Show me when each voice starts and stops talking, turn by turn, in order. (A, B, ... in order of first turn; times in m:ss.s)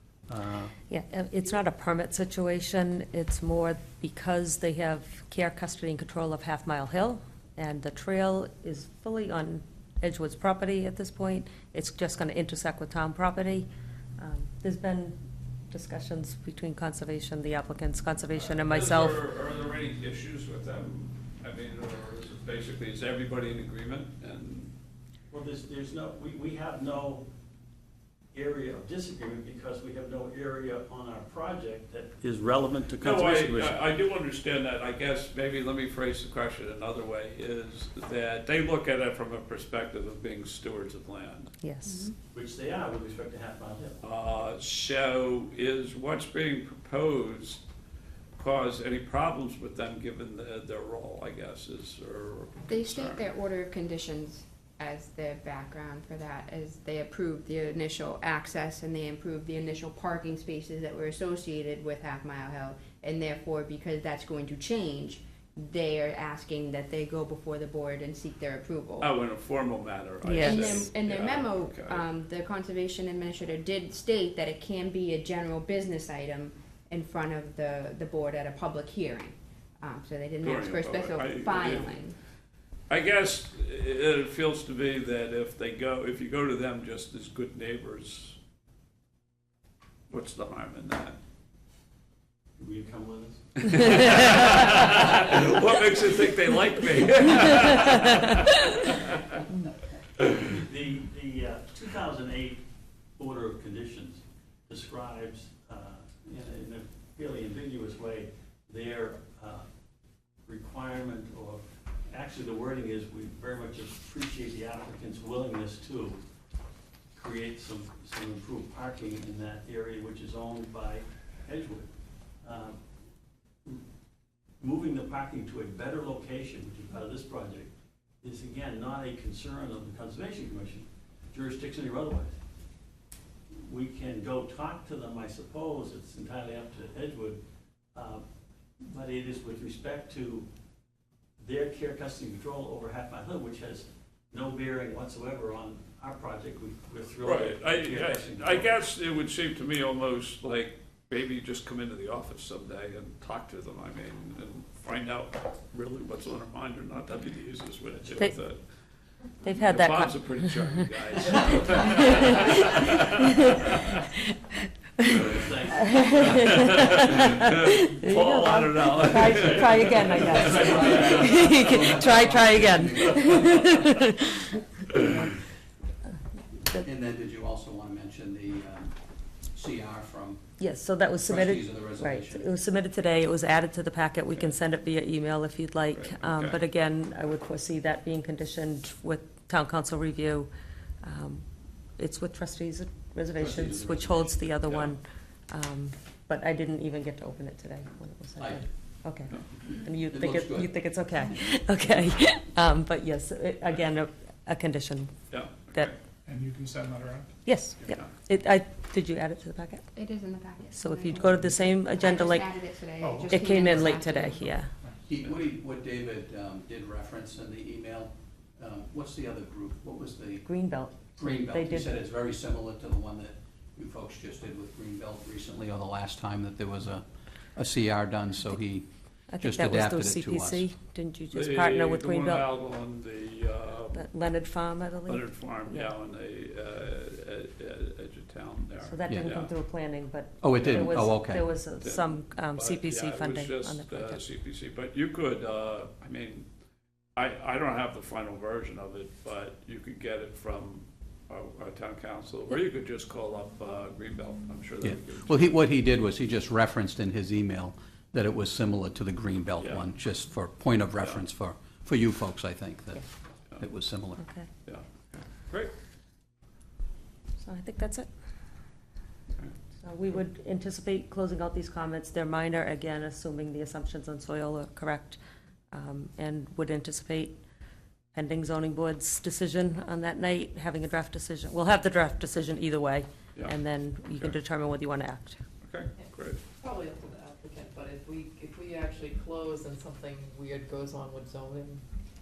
0:00.3-0:00.7 A
0:00.9-0:15.2 B
0:15.7-0:19.2 B
0:18.4-0:24.7 C
0:25.3-0:27.2 A
0:28.3-0:33.8 A
0:33.0-0:41.5 C
0:41.6-0:42.1 B
0:41.9-0:42.1 D
0:42.3-0:44.0 A
0:44.0-0:47.6 C
0:48.4-0:53.3 C
0:52.7-1:09.1 D
1:09.0-1:12.1 C
1:10.2-1:10.8 B
1:10.4-1:22.2 D
1:20.4-1:22.0 C
1:22.9-1:28.4 C
1:30.1-1:31.2 C
1:32.6-1:35.0 A
1:33.6-1:39.2 C
1:40.3-1:42.6 A
1:43.2-1:49.7 A
1:50.5-1:56.2 A
1:57.2-2:01.9 A
2:02.4-2:02.8 A
2:04.6-2:07.7 A
2:08.2-2:12.4 A
2:13.6-2:17.4 A
2:17.9-2:18.2 A
2:18.8-2:20.5 A
2:21.4-2:28.7 A
2:27.2-2:38.6 C
2:39.4-2:45.2 B
2:39.5-2:44.0 C
2:45.1-2:46.3 A
2:45.8-2:55.3 B
2:46.6-2:51.8 C
2:50.1-2:54.1 E
2:56.8-2:58.9 E
2:59.5-3:00.4 E
3:00.6-3:10.5 B
3:01.2-3:02.5 E
3:05.9-3:06.6 C
3:11.0-3:11.4 B
3:12.0-3:25.1 B
3:13.4-3:14.4 E
3:14.7-3:15.0 C
3:20.0-3:20.7 E
3:25.3-3:26.0 C
3:26.3-3:28.0 F
3:27.4-3:29.8 B
3:30.0-3:34.5 D
3:30.7-3:32.6 B
3:33.0-3:33.3 F
3:33.3-3:34.7 B
3:35.0-3:40.5 E
3:40.4-3:42.0 B
3:41.1-3:48.9 E
3:49.3-3:52.5 B
3:49.4-3:50.7 E
3:51.3-3:54.1 C
3:53.9-3:55.9 B
3:55.1-3:59.5 C
3:58.8-4:04.2 B
4:00.4-4:01.5 E
4:01.8-4:06.5 C
4:07.2-4:15.5 C
4:14.8-4:23.0 E
4:19.6-4:19.8 C
4:23.6-4:24.2 E
4:24.2-4:24.5 B
4:24.7-4:25.7 C
4:27.4-4:28.1 B
4:29.8-4:35.2 B
4:35.7-4:37.4 B
4:38.1-4:45.4 B
4:45.6-4:46.4 C
4:46.6-4:51.8 G